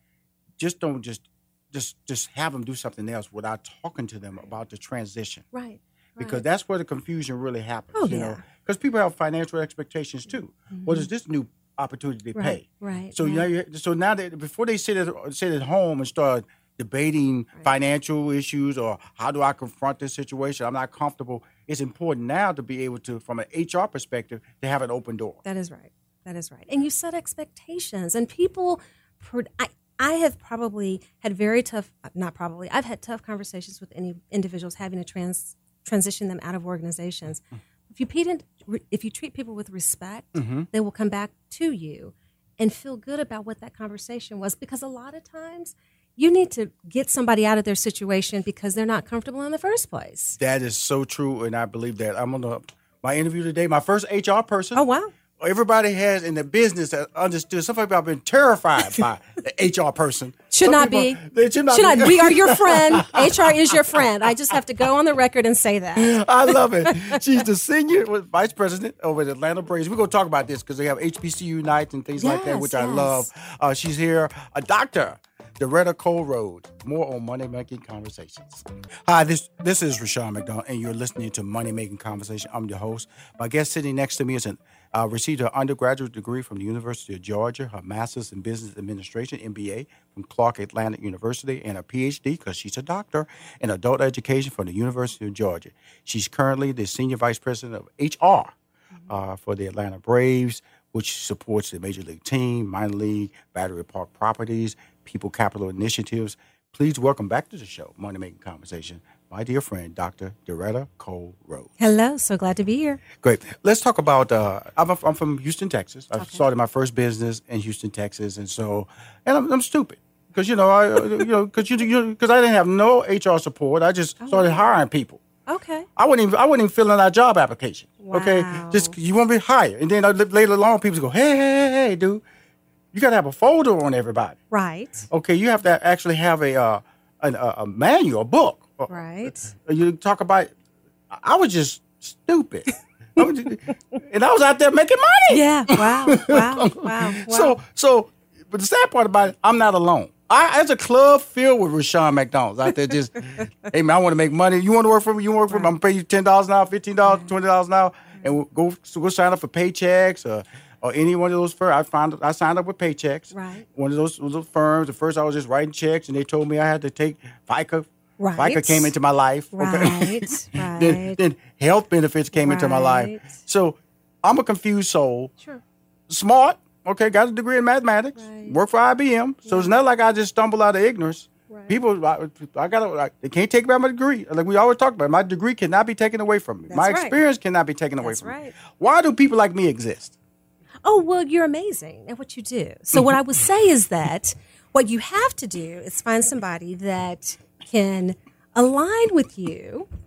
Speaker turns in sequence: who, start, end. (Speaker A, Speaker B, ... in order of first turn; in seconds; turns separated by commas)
Speaker A: 0.6-5.5, Speaker B: 5.5-6.4, Speaker A: 6.2-25.4, Speaker B: 7.9-8.4, Speaker B: 10.7-11.1, Speaker B: 12.3-13.5, Speaker B: 25.4-50.4, Speaker A: 40.3-40.7, Speaker A: 50.4-54.8, Speaker B: 54.7-55.1, Speaker A: 55.4-64.0, Speaker B: 60.5-67.1, Speaker A: 66.0-98.5, Speaker B: 72.2-73.3, Speaker A: 99.1-111.7, Speaker B: 111.8-113.0, Speaker A: 113.2-125.2, Speaker B: 116.2-116.4, Speaker B: 124.2-124.6, Speaker B: 125.5-125.9, Speaker A: 126.0-132.2, Speaker B: 128.0-128.9, Speaker A: 132.9-134.4, Speaker B: 134.5-135.1, Speaker A: 135.1-140.5, Speaker B: 138.9-139.4, Speaker A: 141.1-175.3, Speaker B: 145.3-147.6, Speaker B: 163.3-163.7, Speaker B: 168.2-168.9, Speaker B: 169.5-171.2, Speaker B: 172.4-173.3, Speaker A: 176.1-190.1, Speaker B: 178.2-178.6, Speaker B: 179.4-179.7, Speaker B: 181.5-181.8, Speaker B: 186.7-187.2, Speaker B: 188.0-188.6, Speaker B: 190.8-199.9